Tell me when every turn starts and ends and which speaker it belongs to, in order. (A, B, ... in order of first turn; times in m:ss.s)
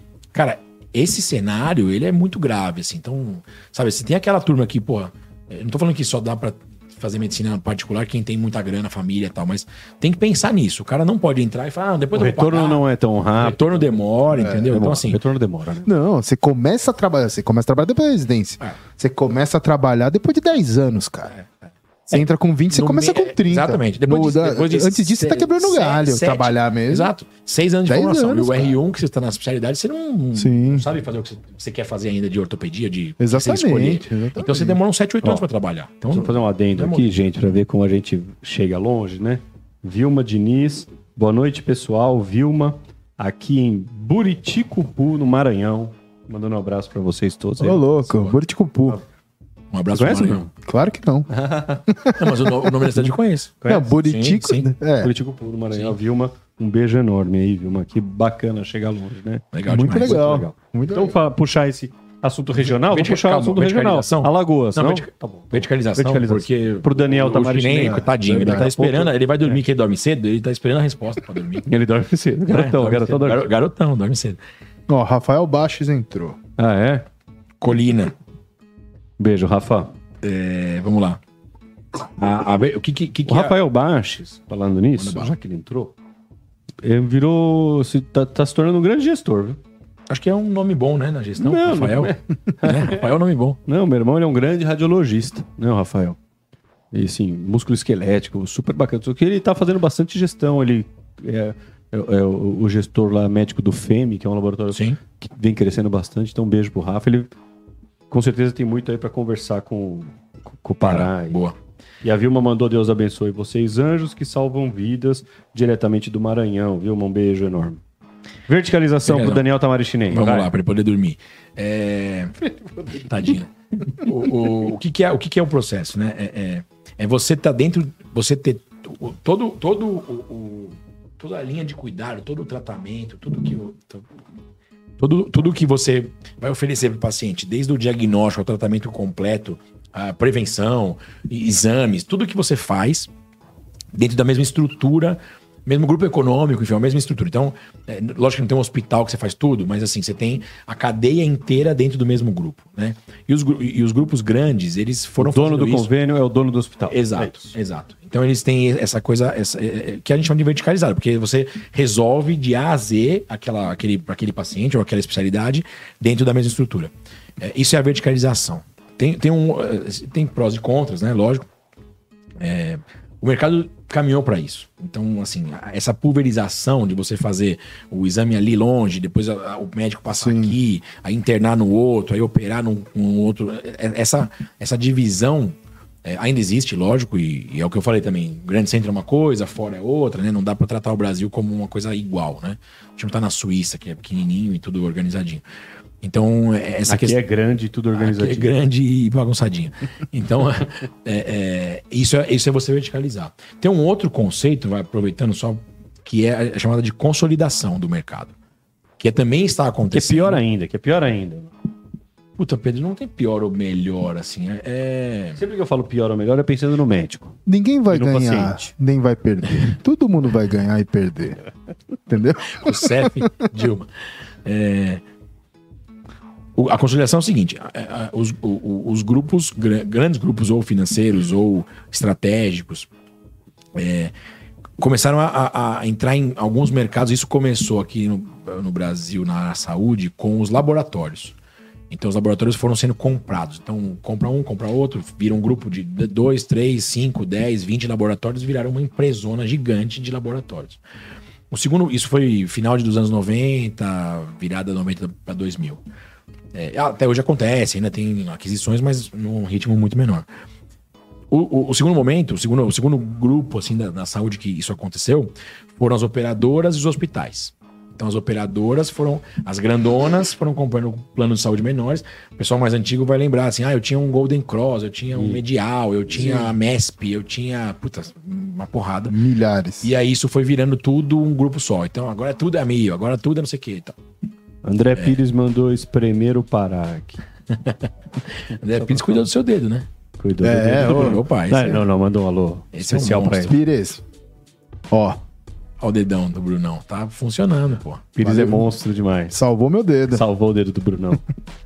0:00.3-0:12.8 A
0:12.1-0:13.9 B
0:13.4-0:15.2 A
0:14.4-0:14.8 C
0:14.6-0:15.9 B
0:15.8-0:21.3 C
0:22.1-0:37.1 A
0:22.1-0:27.1 C
0:27.9-0:28.8 C
0:30.3-0:30.9 C
0:33.2-0:34.8 C
0:36.1-0:47.8 B
0:47.6-0:49.0 C
0:48.0-0:48.4 A
0:49.7-0:50.4 A
0:49.9-0:50.5 B
0:50.6-0:51.3 C
0:51.3-0:51.8 B
0:51.9-0:52.9 C
0:52.1-0:54.7 A
0:53.6-0:53.9 B
0:53.6-0:55.1 C
0:55.0-1:09.6 B
0:59.5-1:00.3 A
0:59.7-1:01.2 C
1:02.6-1:11.7 A
1:07.8-1:08.7 C
1:11.6-1:13.5 B
1:12.5-1:14.4 A
1:14.9-1:16.4 C
1:16.6-1:17.0 B
1:17.6-1:18.1 A
1:19.2-1:19.9 B
1:20.2-1:21.2 A
1:22.2-1:23.6 A
1:23.2-1:25.9 B
1:25.0-1:25.3 A
1:26.8-1:29.6 B
1:30.1-1:33.6 A
1:31.4-1:33.0 B
1:33.6-1:36.2 B
1:36.9-1:47.3 B
1:44.7-1:45.0 A
1:48.1-1:51.4 B
1:50.8-1:51.5 A
1:52.0-1:57.8 B
1:58.5-2:00.5 B
1:59.0-1:59.4 A
2:00.1-2:14.0 A
2:15.0-2:23.1 A
2:23.9-2:35.9 A
2:35.2-2:37.5 B
2:36.9-2:51.4 A
2:52.4-3:15.4 A
3:00.2-3:00.6 C
3:16.0-3:17.2 A
3:16.9-3:18.5 B
3:17.9-3:28.3 A
3:29.0-3:30.4 A
3:29.9-3:31.5 B
3:32.4-3:35.4 A
3:35.4-3:37.4 B
3:37.4-3:41.4 C
3:37.9-3:38.7 B
3:42.1-3:43.1 C
3:42.5-3:43.9 A
3:44.4-3:45.0 A
3:46.6-3:52.9 A
3:53.7-3:54.1 A
3:54.8-4:01.3 A
4:01.9-4:10.8 A
4:11.5-4:15.8 A
4:16.5-4:20.2 A
4:21.3-4:39.2 A
4:35.1-4:35.4 B
4:36.2-4:36.5 C
4:39.1-4:39.9 C
4:39.8-4:44.0 A
4:44.6-4:47.2 B
4:47.5-4:49.9 A
4:48.8-4:49.2 B
4:50.2-4:53.5 B
4:50.4-4:51.2 C
4:50.7-4:51.8 A
4:52.7-4:53.6 A
4:53.5-4:54.0 C
4:54.9-4:55.2 C
4:55.8-4:58.1 A
4:58.1-4:59.4 B
4:58.2-4:58.7 C
4:59.3-5:00.2 C
5:00.1-5:01.2 B